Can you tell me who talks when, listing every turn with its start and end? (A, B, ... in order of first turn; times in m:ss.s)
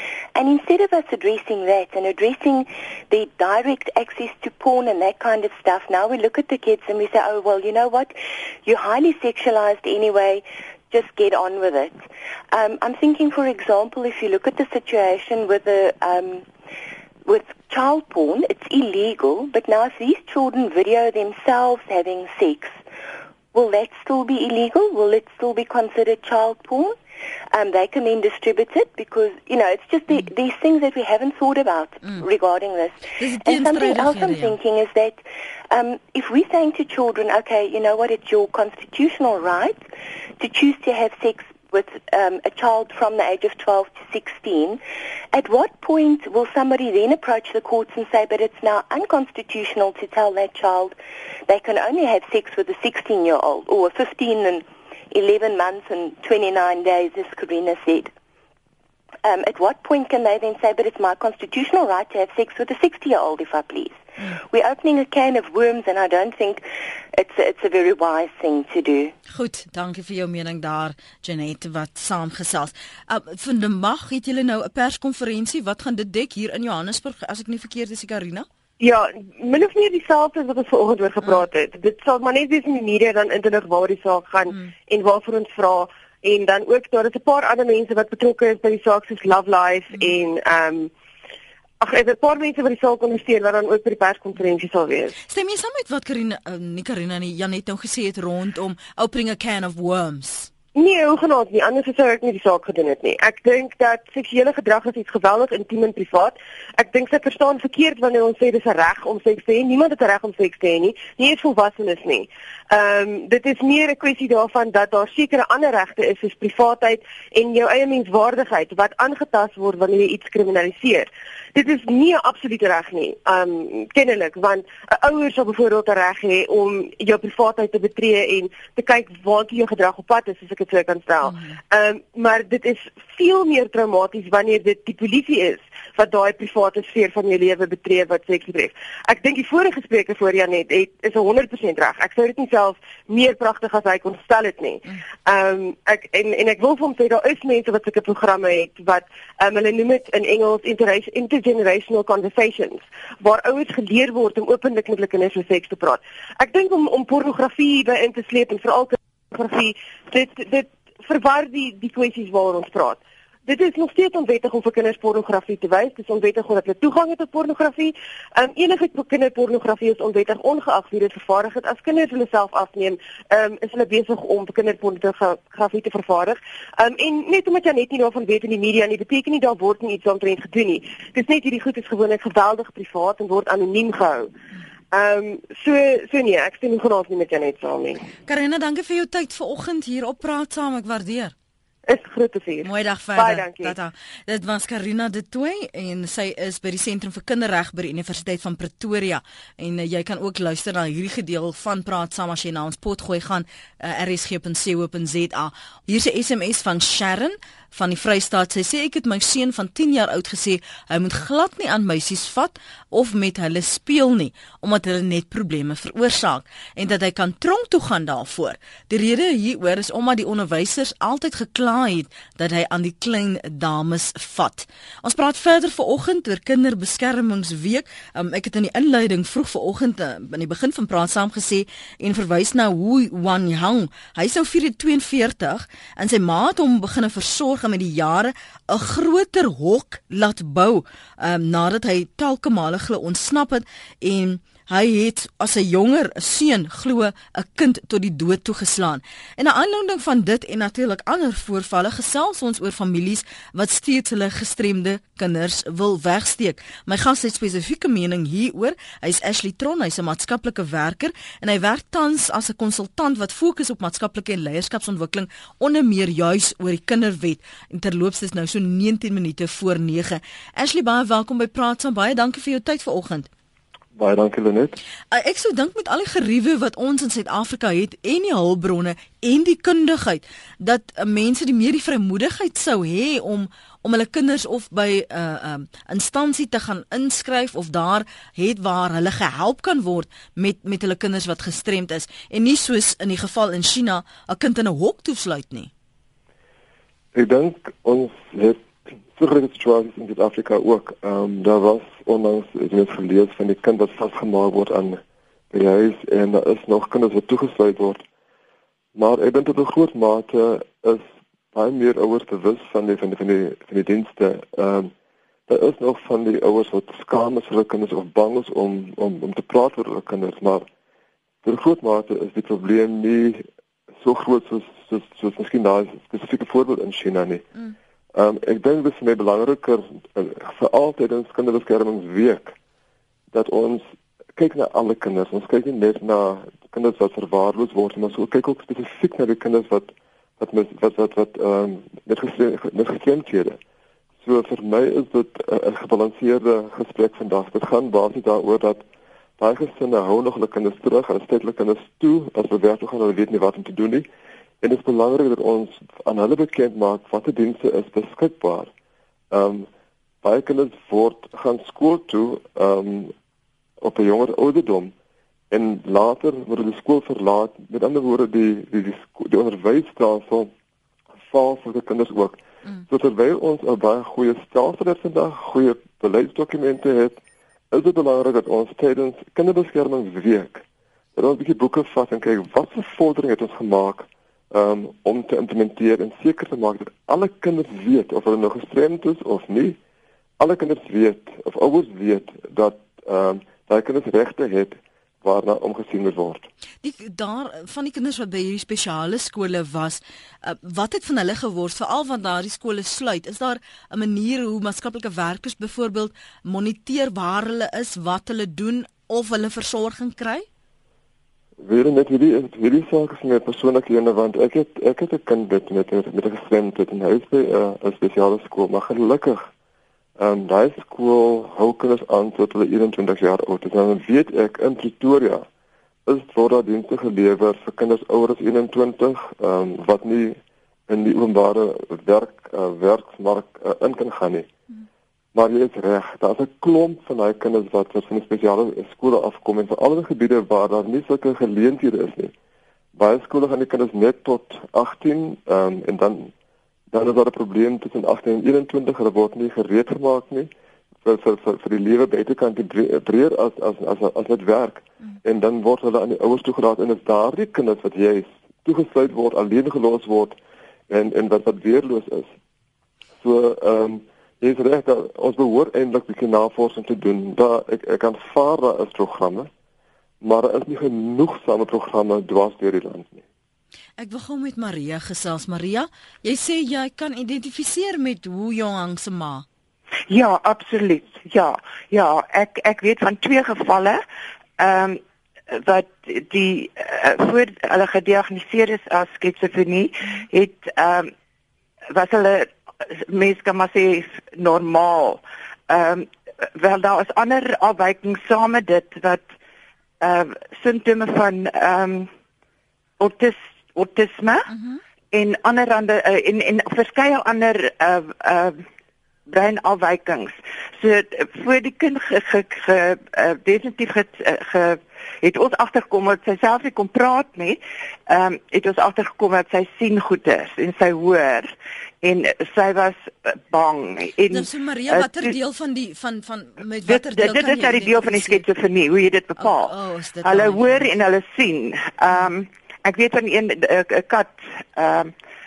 0:00.4-0:16.5 A
0:17.2-0:22.8 A
0:23.5-0:27.0 A
0:27.5-0:39.8 A
0:33.2-0:34.6 B
0:40.4-0:44.8 A
0:45.3-0:51.0 A
0:51.5-0:58.1 A
0:59.2-1:06.6 A
1:07.1-1:09.1 A
1:09.3-1:18.5 B
1:18.8-1:30.9 C
1:31.8-1:35.2 C
1:35.3-1:40.5 B
1:40.8-3:04.3 C
2:11.3-2:11.6 B
3:04.9-3:08.0 C
3:08.3-3:11.3 B
3:11.9-3:13.8 C
3:12.6-4:33.3 B
4:34.0-4:34.8 D
4:35.1-4:55.7 B
4:57.1-5:08.0 D
5:09.0-5:14.9 D
5:15.5-5:20.7 D
5:21.4-5:23.4 D
5:24.0-5:27.5 D
5:28.1-5:32.6 D
5:33.3-5:33.8 D
5:34.4-5:43.6 D
5:44.2-5:48.8 D
5:49.4-5:54.1 D
5:54.6-5:58.7 D
5:59.3-5:59.7 D
6:00.2-6:03.1 D
6:03.8-6:04.9 D
6:05.5-6:10.5 D
6:11.2-6:29.8 D
6:30.4-6:36.5 D
6:36.8-6:50.5 B
6:51.6-6:59.5 D
7:00.2-7:05.5 D
7:06.1-7:14.5 D
7:15.3-7:22.3 D
7:23.0-7:26.3 D
7:26.9-7:30.5 D
7:31.0-7:40.4 D
7:40.9-7:42.3 D
7:43.2-7:49.5 D
7:50.2-7:53.2 D
7:54.0-7:59.5 B
8:00.1-8:04.0 E
8:04.6-8:05.0 E
8:05.5-8:11.1 E
8:11.9-8:19.3 E
8:20.0-8:22.1 E
8:23.0-8:24.5 E
8:24.5-8:24.8 B
8:25.1-8:28.6 E
8:29.3-8:45.3 E
8:44.3-8:48.5 B
8:46.9-8:55.1 E
8:49.4-8:50.9 B